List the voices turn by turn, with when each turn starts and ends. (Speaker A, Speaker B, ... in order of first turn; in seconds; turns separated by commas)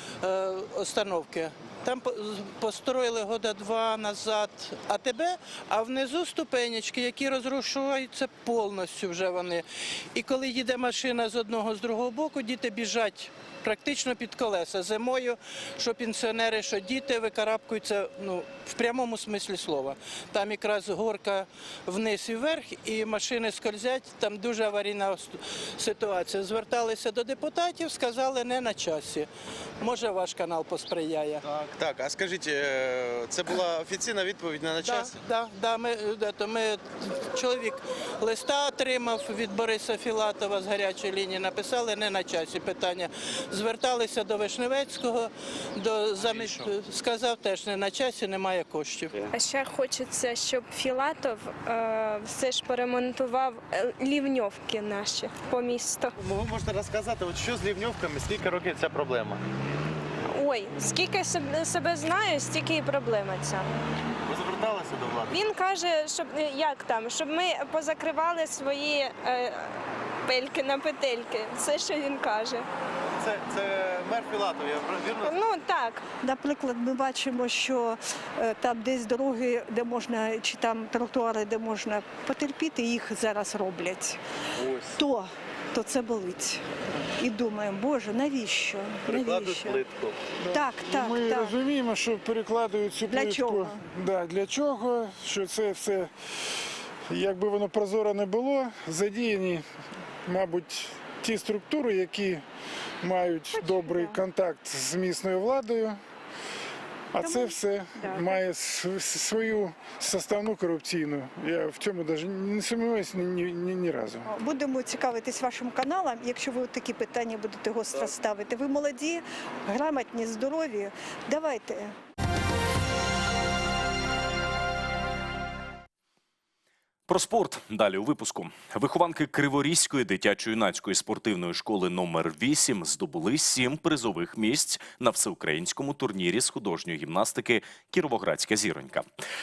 Speaker A: 0.2-29.3, Speaker A: 29.8-31.4, Speaker B: 31.4-35.2, Speaker A: 34.8-49.1, Speaker C: 49.3-56.1, Speaker B: 56.2-59.4, Speaker C: 60.3-63.7, Speaker B: 64.3-65.4, Speaker C: 65.3-69.7, Speaker C: 70.2-72.6, Speaker B: 73.2-75.4, Speaker C: 75.2-76.0, Speaker D: 76.2-84.2, Speaker B: 84.6-84.9, Speaker D: 85.0-86.6, Speaker D: 87.2-89.8, Speaker B: 89.1-90.2, Speaker E: 90.4-96.1, Speaker D: 90.5-91.5, Speaker D: 93.1-93.8, Speaker E: 97.1-99.6, Speaker E: 100.2-102.4, Speaker E: 103.0-106.0, Speaker D: 103.5-104.2, Speaker E: 107.1-114.3, Speaker D: 107.2-108.5, Speaker D: 114.3-121.9, Speaker F: 127.1-139.0